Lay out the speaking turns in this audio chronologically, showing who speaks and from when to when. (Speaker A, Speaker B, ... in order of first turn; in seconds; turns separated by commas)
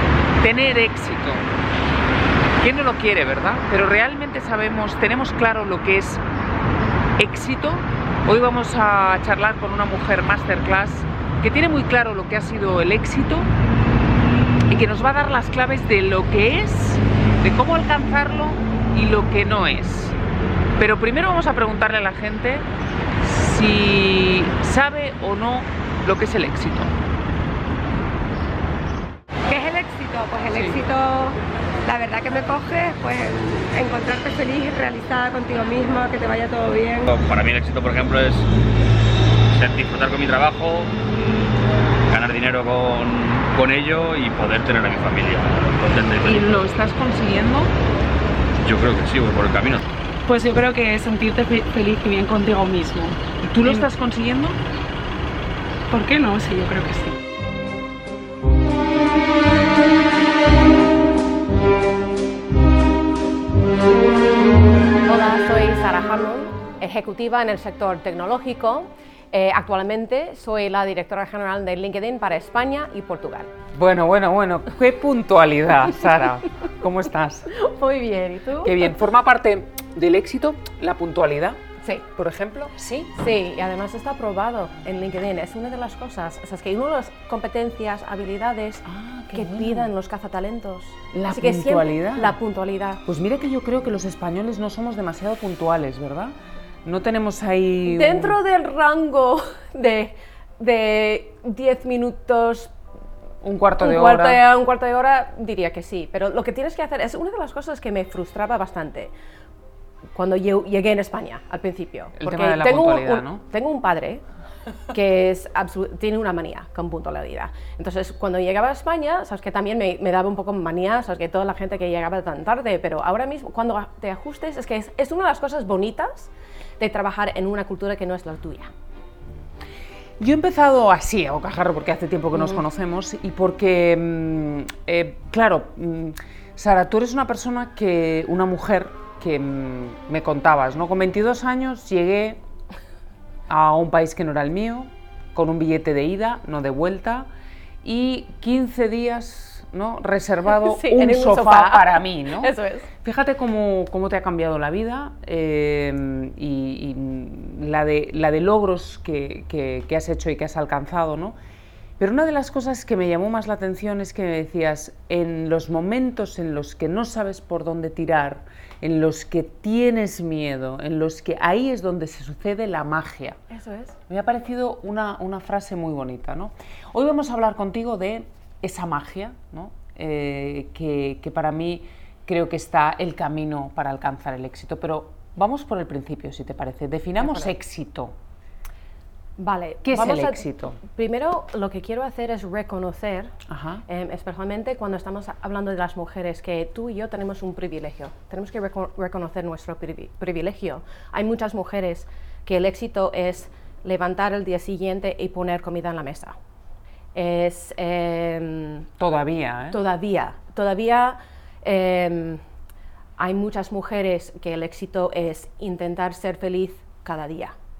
Speaker A: 0.4-1.4, Speaker A: 2.6-6.2, Speaker A: 7.2-13.5, Speaker A: 14.7-20.1, Speaker A: 20.8-22.6, Speaker A: 23.2-26.9, Speaker B: 29.5-37.1, Speaker A: 30.5-30.8, Speaker C: 37.1-38.5, Speaker C: 39.5-40.9, Speaker C: 42.1-46.5, Speaker A: 46.2-47.7, Speaker C: 48.6-49.8, Speaker D: 50.3-53.9, Speaker A: 53.4-54.6, Speaker D: 55.9-57.1, Speaker E: 65.0-73.5, Speaker A: 73.7-77.5, Speaker E: 77.5-78.9, Speaker A: 78.6-81.6, Speaker E: 81.8-82.0, Speaker A: 82.1-83.1, Speaker E: 83.1-93.0, Speaker A: 88.8-89.9, Speaker A: 91.1-92.3, Speaker A: 93.0-98.3, Speaker E: 97.8-102.7, Speaker A: 103.4-104.4, Speaker E: 103.8-109.1, Speaker E: 110.1-114.2, Speaker A: 112.2-113.4, Speaker E: 114.9-128.7, Speaker A: 130.2-142.4, Speaker E: 132.3-132.6, Speaker A: 143.5-147.3, Speaker A: 147.8-161.3, Speaker E: 150.5-152.9, Speaker A: 162.0-173.4, Speaker E: 173.5-173.9, Speaker A: 174.1-188.1, Speaker E: 187.2-187.5, Speaker E: 189.4-193.3, Speaker A: 189.8-190.8, Speaker A: 193.5-193.8, Speaker E: 193.8-206.3, Speaker E: 207.1-208.9, Speaker A: 209.0-209.8, Speaker E: 209.7-212.4, Speaker E: 213.2-217.5